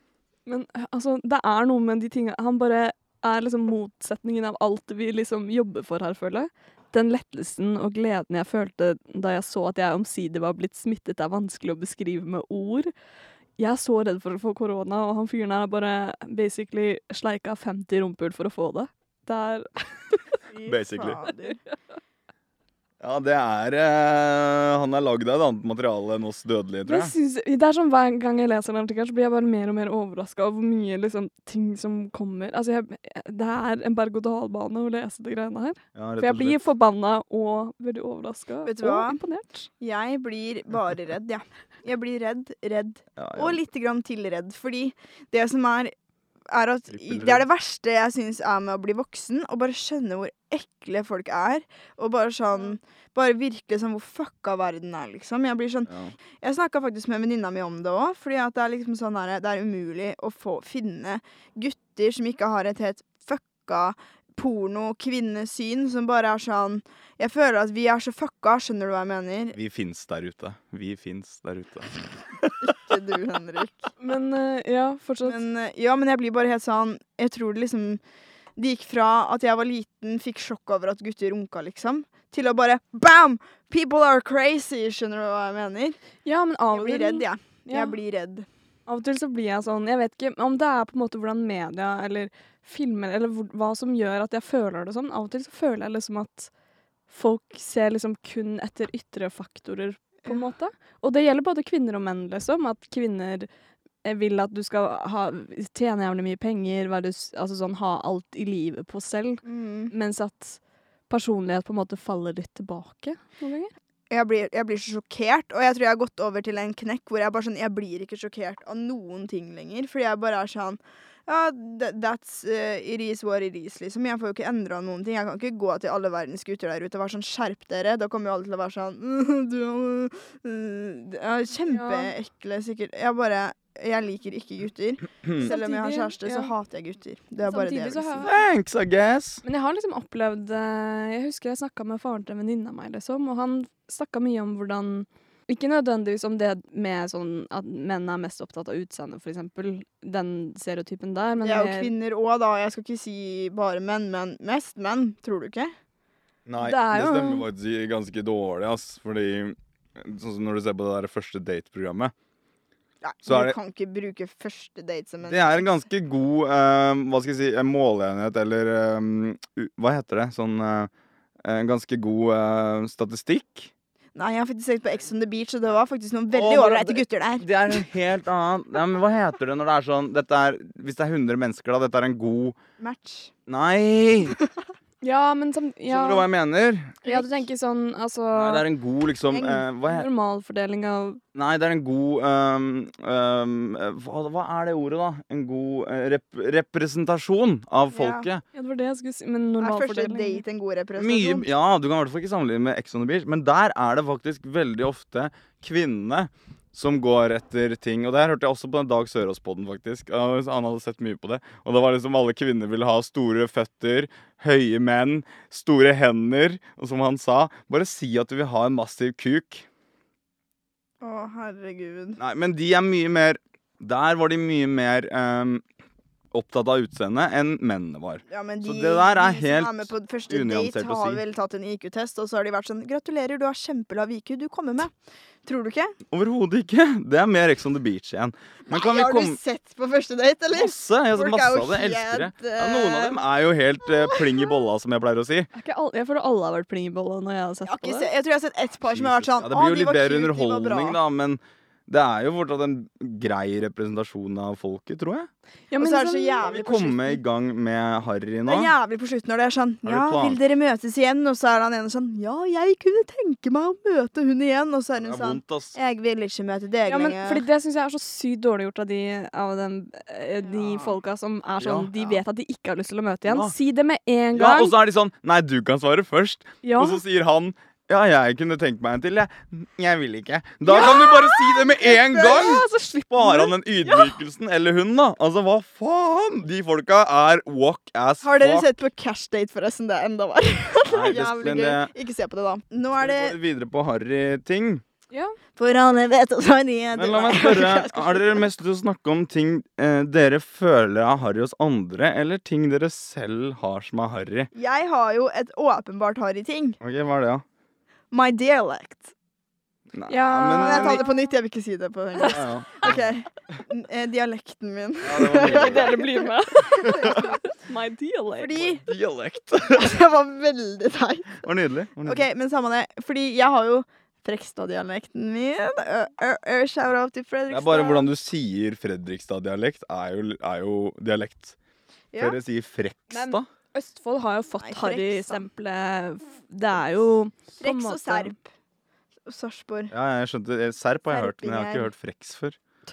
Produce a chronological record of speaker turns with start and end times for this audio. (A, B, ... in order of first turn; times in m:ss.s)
0:00.4-0:12.9 A
0:13.6-0:20.2 A
0:20.5-0:21.6 B
0:20.6-0:21.2 C
0:23.0-0:27.1 C
0:26.8-0:39.7 A
0:35.9-0:36.6 C
0:38.6-0:39.2 B
0:39.8-0:45.9 B
0:43.2-0:43.6 C
0:46.5-1:09.6 B
0:46.9-0:47.4 C
0:55.9-0:56.1 C
1:09.5-1:12.6 C
1:12.6-1:13.9 B
1:14.0-1:15.4 A
1:15.2-1:18.0 B
1:18.6-1:26.0 B
1:26.2-1:28.0 A
1:26.7-1:28.5 B
1:28.9-1:36.5 A
1:37.1-1:43.5 A
1:44.0-1:53.7 A
1:49.4-1:49.9 B
1:54.1-2:18.3 B
2:11.7-2:12.1 A
2:15.4-2:16.5 A
2:17.4-2:18.3 A
2:18.2-2:19.4 C
2:19.4-2:31.9 A
2:31.4-2:35.7 B
2:36.4-2:42.1 C
2:36.6-2:37.4 A
2:43.0-2:45.7 B
2:43.2-2:43.6 C
2:45.2-2:50.9 C
2:51.4-2:53.7 C
2:54.2-2:57.5 B
2:56.3-3:02.6 C
3:02.8-3:03.3 B
3:03.5-3:04.4 C
3:05.0-3:06.2 A
3:05.9-3:07.0 C
3:07.0-3:08.6 A
3:08.3-3:10.1 C
3:09.3-3:09.6 B
3:09.8-3:11.2 A
3:11.3-3:18.4 C
3:17.9-3:18.3 B
3:18.5-3:20.4 A
3:19.6-3:21.5 B
3:21.0-3:39.7 C
3:41.0-3:42.2 B
3:42.2-3:45.6 C
3:46.3-3:51.2 C
3:48.3-3:54.9 B
3:55.4-3:56.0 B
3:56.1-3:59.4 C
3:58.7-4:03.2 B
4:00.5-4:05.5 C
4:05.5-4:08.1 A
4:07.6-4:11.0 B
4:08.9-4:15.3 C
4:15.7-4:16.6 A
4:15.8-4:17.2 B
4:16.4-4:18.7 C
4:18.4-4:27.4 B
4:19.8-4:20.4 C
4:25.0-4:25.8 C
4:26.8-4:34.7 A
4:30.4-4:31.0 B
4:31.6-4:31.9 C
4:33.3-4:33.5 C
4:34.3-4:48.7 C
4:36.6-4:37.0 A
4:40.6-4:44.2 A
4:48.2-4:53.4 B
4:50.9-4:51.9 C
4:53.0-4:54.8 C
4:55.1-4:55.4 A
4:55.6-4:58.4 B
4:57.0-5:04.5 C
5:04.5-5:06.8 B
5:06.8-5:07.4 C
5:08.1-5:09.1 B
5:09.9-5:11.0 C
5:10.1-5:11.1 A
5:10.6-5:17.4 B
5:12.3-5:13.0 C
5:15.0-5:16.0 C
5:15.3-5:18.6 A
5:16.9-5:17.2 C
5:18.4-5:18.8 B
5:18.5-5:20.0 C
5:19.6-5:21.4 B
5:21.4-5:22.2 C
5:22.0-5:28.1 B
5:27.5-5:31.6 C
5:32.1-5:32.4 B
5:32.2-5:33.5 C
5:33.1-5:38.3 A
5:34.6-5:35.4 B
5:37.6-5:38.5 B
5:39.2-5:39.9 B
5:39.9-5:42.6 C
5:41.1-5:41.9 B